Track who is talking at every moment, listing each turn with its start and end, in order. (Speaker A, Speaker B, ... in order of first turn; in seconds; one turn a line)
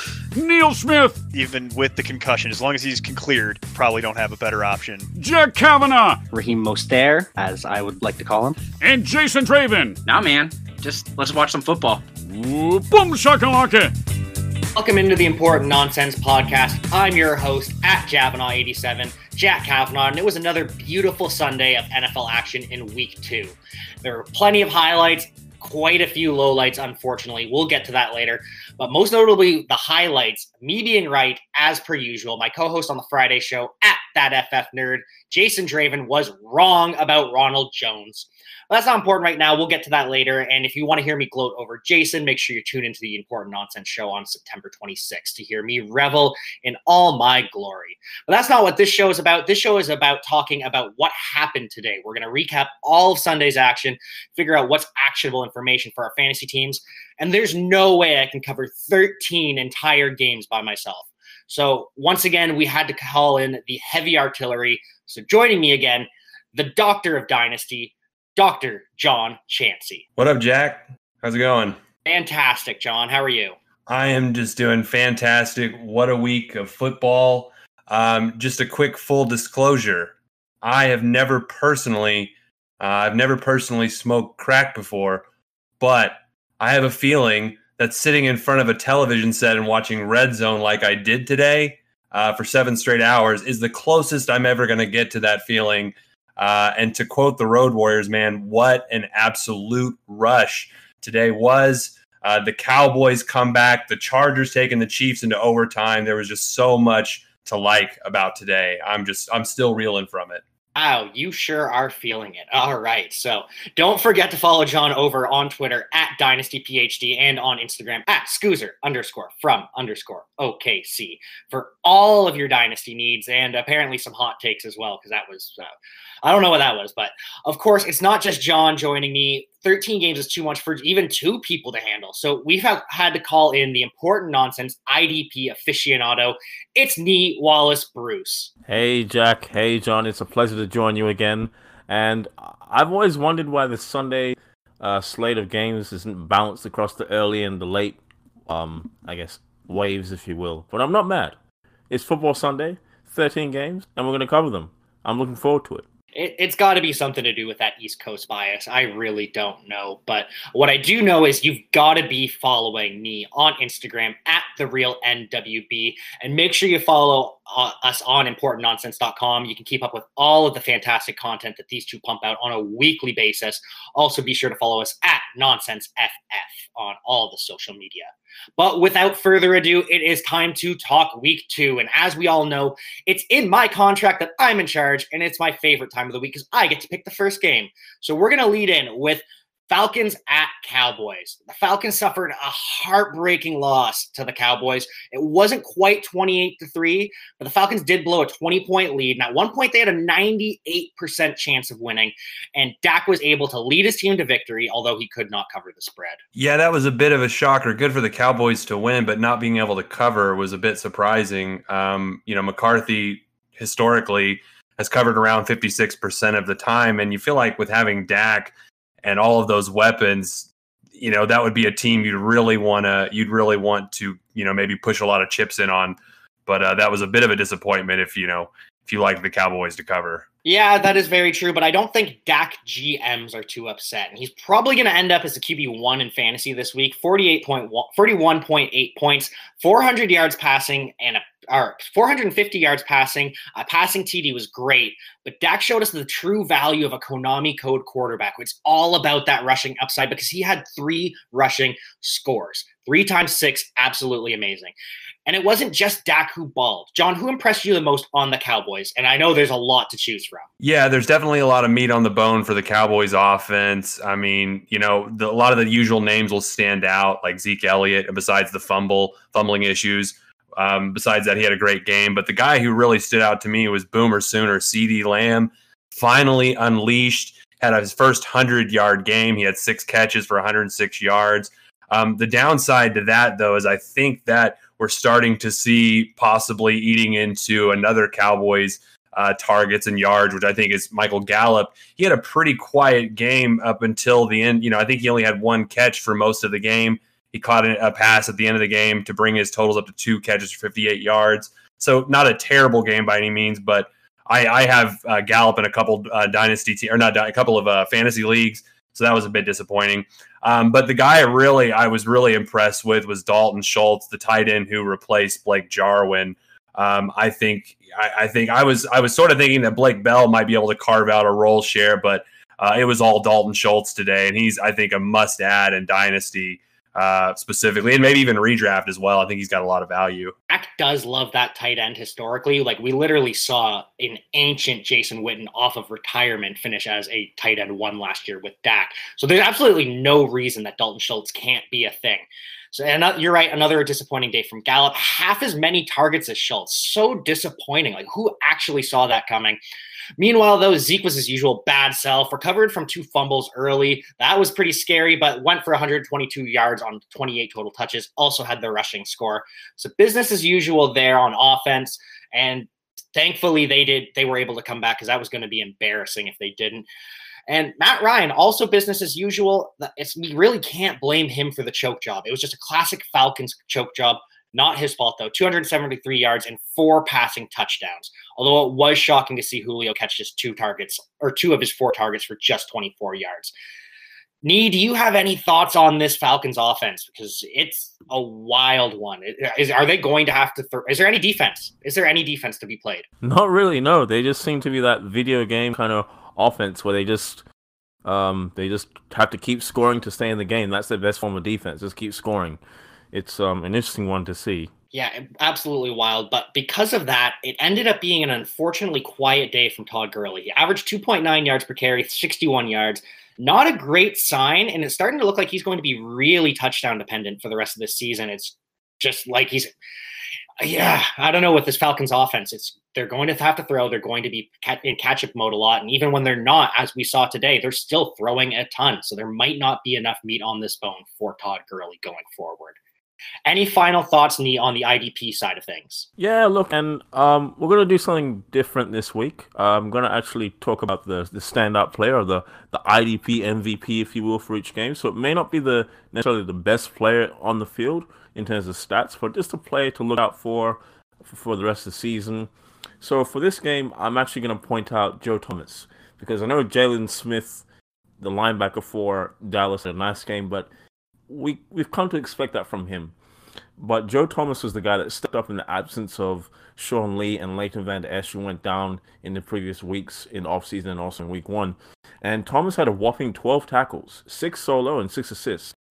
Speaker A: 0.3-1.2
Speaker B: 1.3-5.1
Speaker A: 5.2-6.2
Speaker C: 6.3-8.6
Speaker A: 8.8-10.0
Speaker D: 10.1-12.0
Speaker A: 12.3-13.9
Speaker E: 14.8-70.0
Speaker F: 70.2-71.8
Speaker E: 72.0-73.5
Speaker F: 73.9-85.2
Speaker F: 85.8-110.4
Speaker E: 110.7-125.6
Speaker E: 126.2-138.5
Speaker G: 138.7-151.4
Speaker G: 151.9-155.8
Speaker E: 156.1-206.2
Speaker F: 206.3-230.3
Speaker E: 230.4-254.7
Speaker E: 255.2-260.5
Speaker F: 260.6-330.3
Speaker E: 330.5-349.6
Speaker E: 350.2-366.9
Speaker E: 367.5-383.5
Speaker E: 384.4-393.1
Speaker G: 393.2-397.4
Speaker G: 398.1-402.6
Speaker G: 403.1-404.7
Speaker E: 404.9-419.7
Speaker E: 420.6-432.8
Speaker E: 433.4-436.1
Speaker G: 436.2-452.5
Speaker G: 453.0-457.6
Speaker G: 458.2-460.7
Speaker G: 461.3-463.1
Speaker G: 463.8-475.8